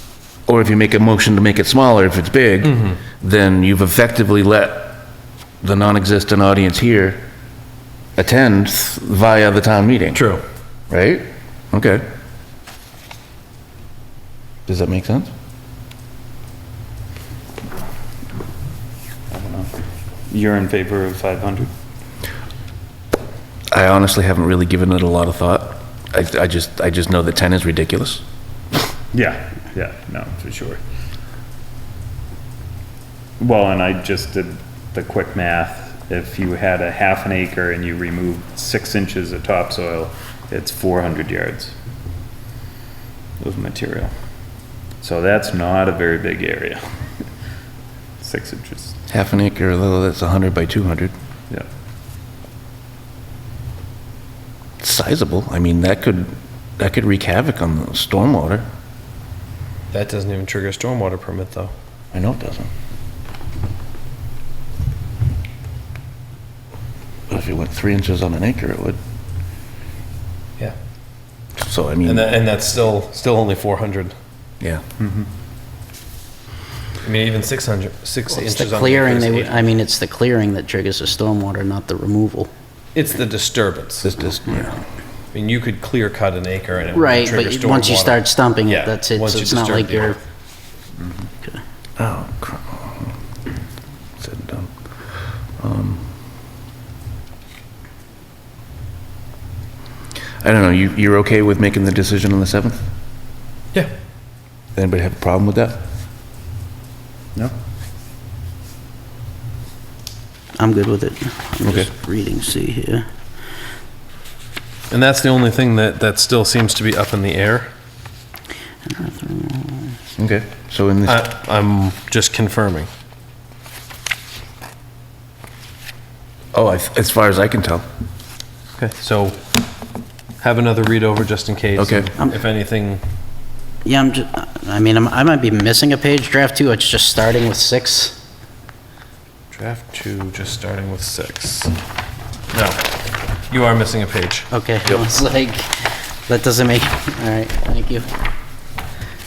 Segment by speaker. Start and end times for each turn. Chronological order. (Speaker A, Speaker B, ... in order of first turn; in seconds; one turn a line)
Speaker A: 0.5-5.0
Speaker A: 5.6-7.2
Speaker A: 8.2-10.2
Speaker B: 10.1-10.4
Speaker A: 10.9-12.1
Speaker A: 14.7-15.3
Speaker C: 19.3-19.7
Speaker C: 20.3-21.7
Speaker A: 23.7-28.2
Speaker C: 29.1-30.8
Speaker C: 33.4-41.7
Speaker C: 43.4-44.1
Speaker C: 45.0-46.8
Speaker C: 48.2-49.0
Speaker A: 49.1-51.1
Speaker A: 54.8-58.7
Speaker B: 59.9-61.7
Speaker A: 62.1-62.7
Speaker A: 67.3-69.0
Speaker A: 71.6-72.3
Speaker B: 72.0-74.1
Speaker C: 75.0-75.2
Speaker B: 77.0-79.7
Speaker D: 78.3-82.5
Speaker B: 82.9-84.1
Speaker A: 84.0-84.8
Speaker B: 85.3-90.2
Speaker D: 86.9-90.2
Speaker A: 92.0-93.1
Speaker A: 94.2-94.7
Speaker A: 95.6-96.1
Speaker A: 100.4-102.9
Speaker A: 104.7-105.8
Speaker D: 110.6-113.0
Speaker A: 111.6-111.9
Speaker B: 114.9-117.7
Speaker D: 118.9-119.9
Speaker A: 120.2-121.3
Speaker B: 121.0-122.9
Speaker A: 126.5-127.8
Speaker B: 128.8-129.4
Speaker B: 130.4-133.0
Speaker A: 131.8-132.1
Speaker D: 133.8-138.2
Speaker B: 139.5-141.7
Speaker B: 142.5-142.8
Speaker B: 143.5-144.5
Speaker D: 144.5-148.1